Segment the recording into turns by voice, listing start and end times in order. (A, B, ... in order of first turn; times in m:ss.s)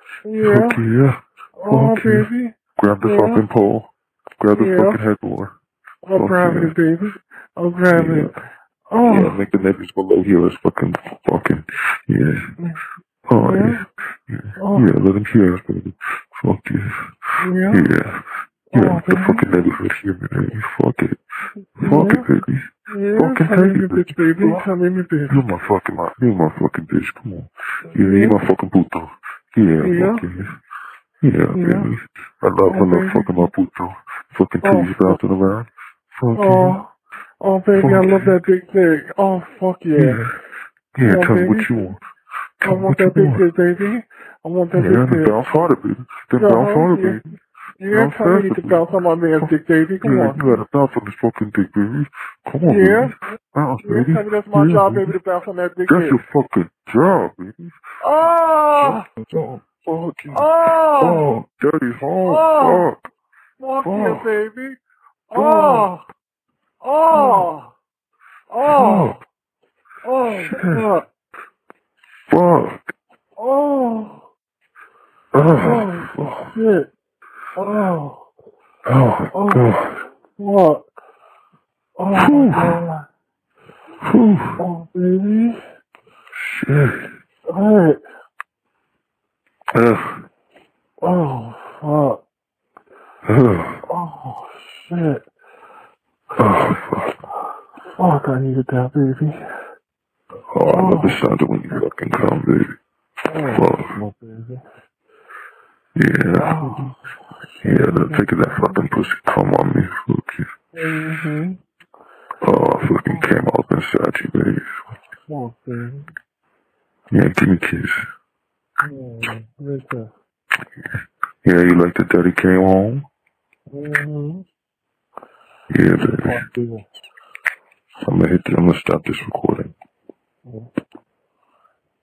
0:00.2-0:00.8 A
0:00.4-0:05.6 B
0:01.6-0:03.4 A
0:04.5-0:05.0 A
0:06.0-0:08.4 A
0:06.1-0:06.8 B
0:07.9-0:08.3 B
0:08.9-0:09.4 A
0:09.1-0:12.5 B
0:13.3-0:17.1 B
0:13.4-0:13.8 A
0:14.6-0:14.9 A
0:17.4-0:17.9 A
0:17.7-0:21.2 B
0:18.7-0:19.5 A
0:21.8-0:24.7 B
0:21.8-0:22.3 A
0:22.9-0:25.4 A
0:25.3-0:30.6 B
0:27.9-0:28.4 A
0:29.8-0:30.2 A
0:31.2-0:36.8 B
0:31.6-0:31.9 A
0:32.7-0:33.5 A
0:34.6-0:35.2 A
0:36.4-0:40.2 A
0:37.8-0:38.4 B
0:39.9-0:40.4 B
0:41.0-0:42.0 B
0:41.0-0:41.9 A
0:42.6-0:45.6 A
0:42.6-0:43.4 B
0:44.7-0:47.4 B
0:46.4-0:47.2 A
0:47.8-0:50.6 A
0:47.9-0:48.8 B
0:49.4-0:55.2 B
0:52.6-0:53.2 A
0:53.8-0:56.2 A
0:55.9-0:57.8 B
0:58.0-0:59.1 A
0:58.8-1:03.0 B
1:00.3-1:01.3 A
1:02.2-1:02.9 A
1:03.6-1:04.8 A
1:03.8-1:04.3 B
1:05.3-1:06.0 A
1:05.3-1:05.9 B
1:06.8-1:07.7 A
1:07.1-1:07.5 B
1:08.5-1:09.2 A
1:08.7-1:09.2 B
1:10.0-1:11.1 A
1:10.3-1:10.9 B
1:12.3-1:12.9 B
1:13.4-1:14.2 A
1:15.3-1:16.5 B
1:15.6-1:16.9 A
1:17.6-1:18.2 A
1:18.8-1:20.0 B
1:19.3-1:19.8 A
1:20.4-1:20.8 A
1:22.0-1:23.1 A
1:22.2-1:22.8 B
1:24.0-1:24.6 B
1:24.6-1:25.6 A
1:26.3-1:27.1 B
1:27.5-1:28.0 A
1:29.7-1:30.3 B
1:31.0-1:32.2 A
1:33.2-1:33.8 B
1:33.9-1:35.2 A
1:36.4-1:37.2 B
1:38.0-1:39.4 A
1:40.5-1:42.8 B
1:40.7-1:41.2 A
1:43.3-1:44.6 A
1:43.4-1:44.0 B
1:46.0-1:46.8 B
1:46.4-1:47.0 A
1:47.6-1:48.8 A
1:47.6-1:50.5 B
1:50.8-1:51.6 A
1:52.4-1:55.0 B
1:55.3-1:56.1 A
1:57.1-1:58.1 B
1:58.8-2:00.1 A
2:01.4-2:03.1 B
2:03.7-2:04.4 A
2:05.7-2:06.4 B
2:06.0-2:06.8 A
2:08.0-2:09.7 B